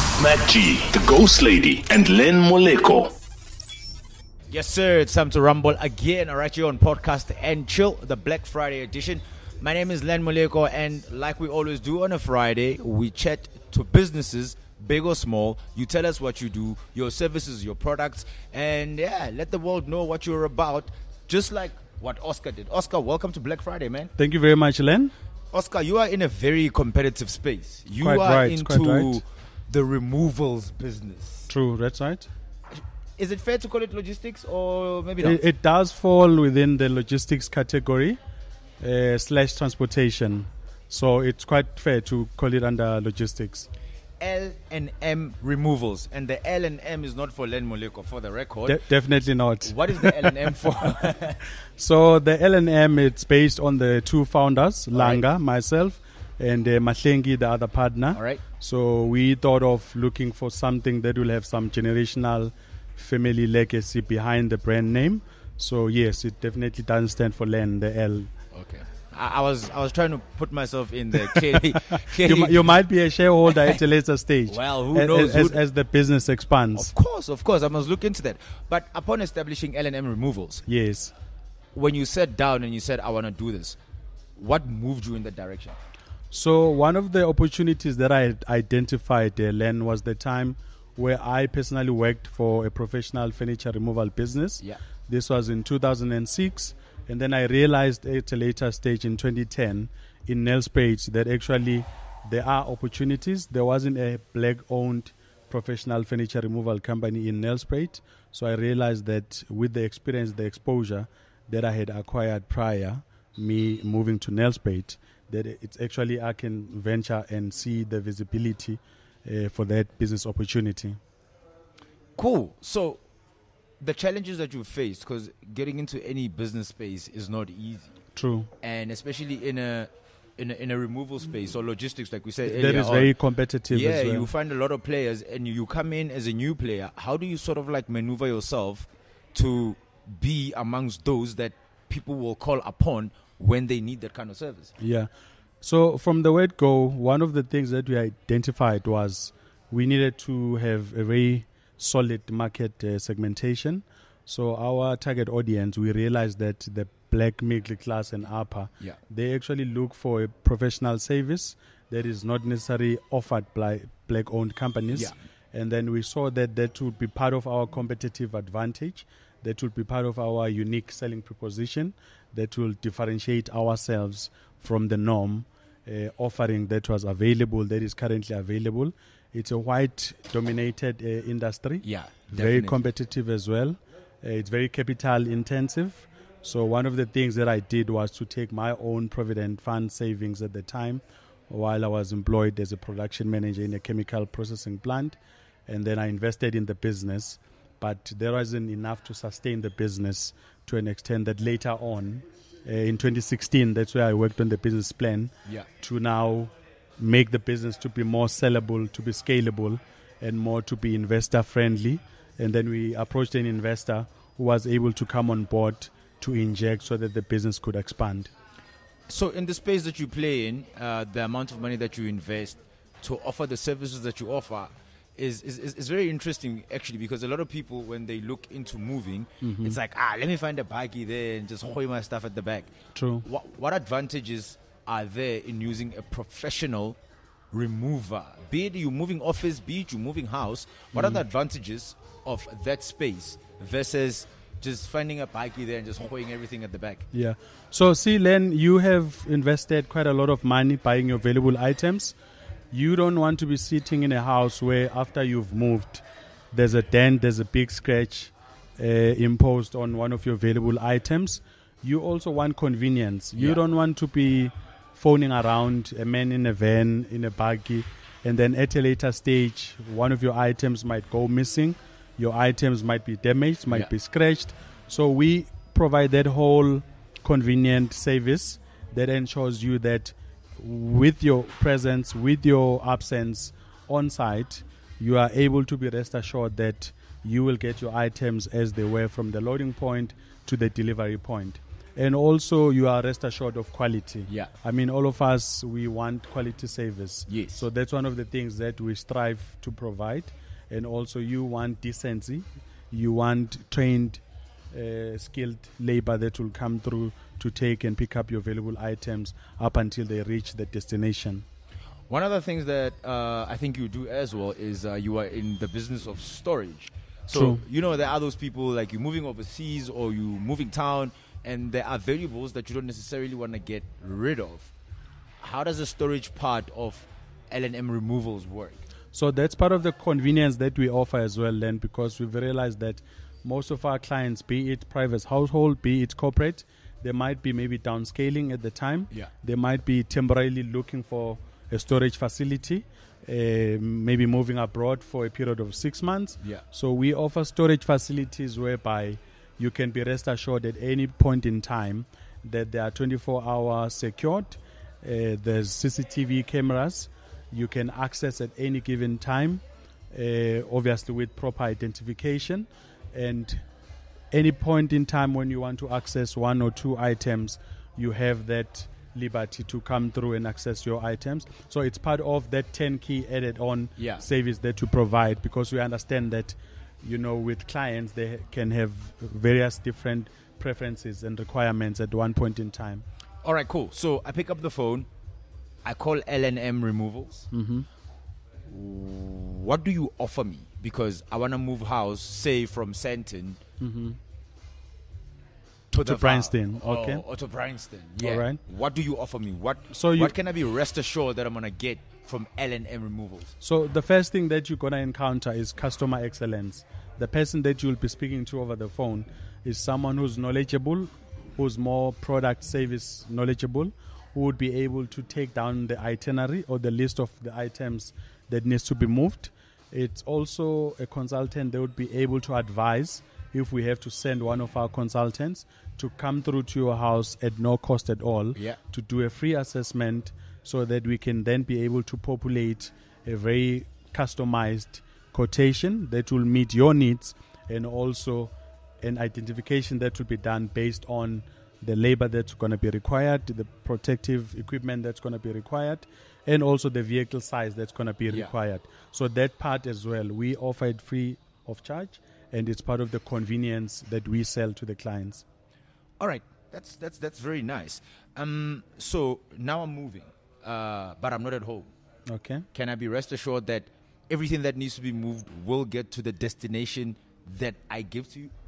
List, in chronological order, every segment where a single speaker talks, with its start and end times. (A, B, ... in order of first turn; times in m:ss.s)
0:00.2-0:03.1 A
0:04.5-0:24.1 B
0:24.2-0:25.1 C
0:25.5-0:31.5 B
0:28.0-0:29.2 C
0:31.5-0:32.3 C
0:33.2-0:35.4 B
0:35.2-0:38.2 C
0:38.8-0:43.7 C
0:44.2-0:48.8 B
0:48.6-0:50.3 C
0:49.6-0:51.4 B
0:51.8-1:08.3 C
0:54.9-0:55.2 B
0:58.1-0:58.4 B
1:08.5-1:12.7 B
1:12.1-1:16.9 C
1:13.5-1:13.8 B
1:14.5-1:15.6 B
1:16.7-1:20.6 B
1:20.6-1:21.1 C
1:21.7-1:23.8 B
1:24.4-1:25.8 B
1:26.3-2:01.0 C
2:02.2-2:03.0 B
2:03.8-2:08.0 B
2:08.2-2:08.5 C
2:08.6-2:13.2 B
2:12.4-2:14.3 C
2:13.7-2:24.7 B
2:24.8-3:15.2 C
3:01.8-3:02.8 B
3:15.7-3:38.3 C
3:39.1-3:52.7 B
3:49.4-3:49.8 C
3:52.9-3:53.2 C
3:53.2-3:57.0 B
3:57.5-4:07.0 B
4:00.9-4:01.2 C
4:07.1-4:12.2 C
4:12.7-5:11.4 C
4:23.4-4:23.6 B
4:57.3-4:57.6 B
5:12.1-5:24.7 B
5:17.3-5:17.6 C
5:25.4-5:28.8 B
5:29.1-6:03.6 C
6:04.3-6:23.0 C
6:14.0-6:14.2 B
6:23.4-6:25.1 B
6:25.8-6:27.4 B
6:27.5-6:27.9 C
6:28.7-6:33.6 B
6:33.8-6:34.2 C
6:35.9-6:43.5 B
6:36.0-6:37.2 C
6:38.2-6:38.6 C
6:39.9-6:40.4 C
6:43.6-7:35.4 C
7:36.2-7:41.9 B
7:42.3-7:42.6 C
7:42.7-7:48.5 B